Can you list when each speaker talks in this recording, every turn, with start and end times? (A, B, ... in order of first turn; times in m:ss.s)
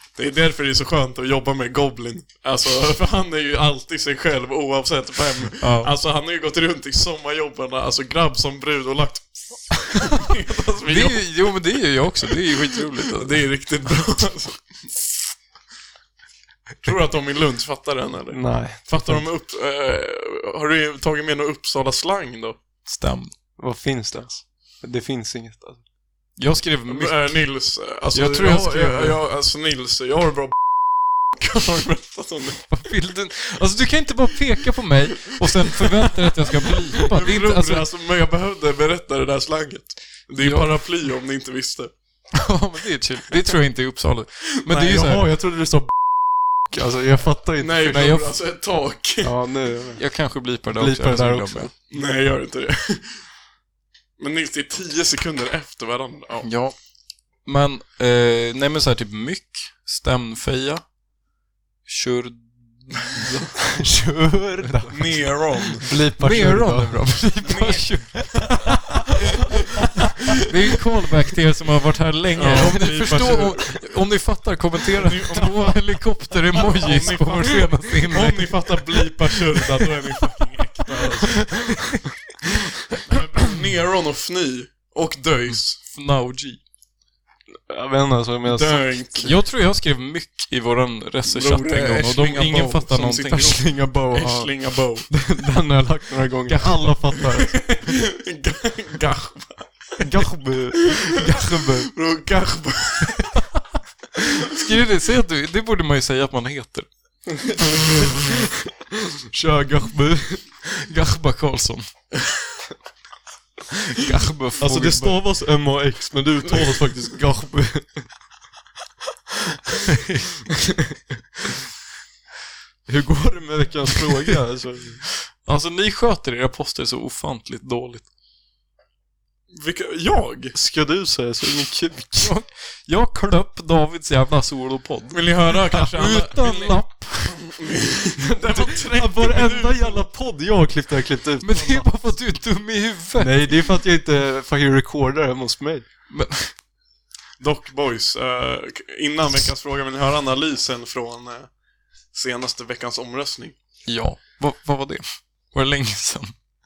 0:00.2-0:11.5 A
0:05.6-0:05.9 B
0:10.9-0:13.4 B
0:12.8-0:15.1 A
0:16.8-0:22.6 A
0:18.3-0:19.2 C
0:22.9-0:23.3 B
0:23.6-0:25.8 C
0:26.4-0:27.4 B
0:26.9-0:30.6 A
0:28.1-0:29.2 B
0:31.3-0:32.6 A
0:32.7-0:37.9 B
0:35.3-0:35.9 A
0:37.0-0:41.9 A
0:40.4-0:40.7 B
0:42.3-0:45.3 B
0:44.7-0:45.9 C
0:46.7-0:47.9 C
0:47.6-0:49.3 A
0:47.8-0:48.3 B
0:49.2-0:50.0 C
0:50.0-0:51.7 B
0:50.8-0:51.7 C
0:51.9-0:53.2 A
0:54.2-0:56.5 A
0:56.4-0:56.8 B
0:57.4-1:00.8 B
1:01.9-1:03.5 B
1:03.8-1:05.2 C
1:04.6-1:04.9 B
1:04.9-1:05.9 A
1:05.8-1:07.4 C
1:06.1-1:09.1 B
1:07.4-1:08.2 A
1:09.3-1:09.8 A
1:10.4-1:19.1 B
1:12.4-1:13.8 A
1:15.0-1:21.7 A
1:22.9-1:25.8 A
1:25.5-1:26.6 B
1:27.7-1:29.0 C
1:28.5-1:29.4 A
1:29.2-1:33.6 B
1:31.3-1:35.1 A
1:33.3-1:34.5 C
1:35.1-1:37.6 C
1:36.5-1:37.0 B
1:37.5-1:39.7 A
1:40.0-1:41.2 C
1:41.2-1:41.9 B
1:41.8-1:43.4 A
1:44.5-1:46.9 B
1:49.3-1:50.5 C
1:50.6-1:51.9 B
1:53.7-1:55.2 B
1:54.6-1:58.0 C
1:59.9-2:00.2 B
2:02.9-2:05.0 C
2:05.4-2:08.1 B
2:09.5-2:10.6 A
2:10.5-2:12.3 C
2:12.2-2:17.4 B
2:15.1-2:20.0 A
2:18.2-2:21.9 C
2:21.4-2:23.6 B
2:23.2-2:25.9 C
2:26.1-2:26.5 B
2:27.4-2:31.5 A
2:32.1-2:33.6 A
2:33.8-2:36.3 B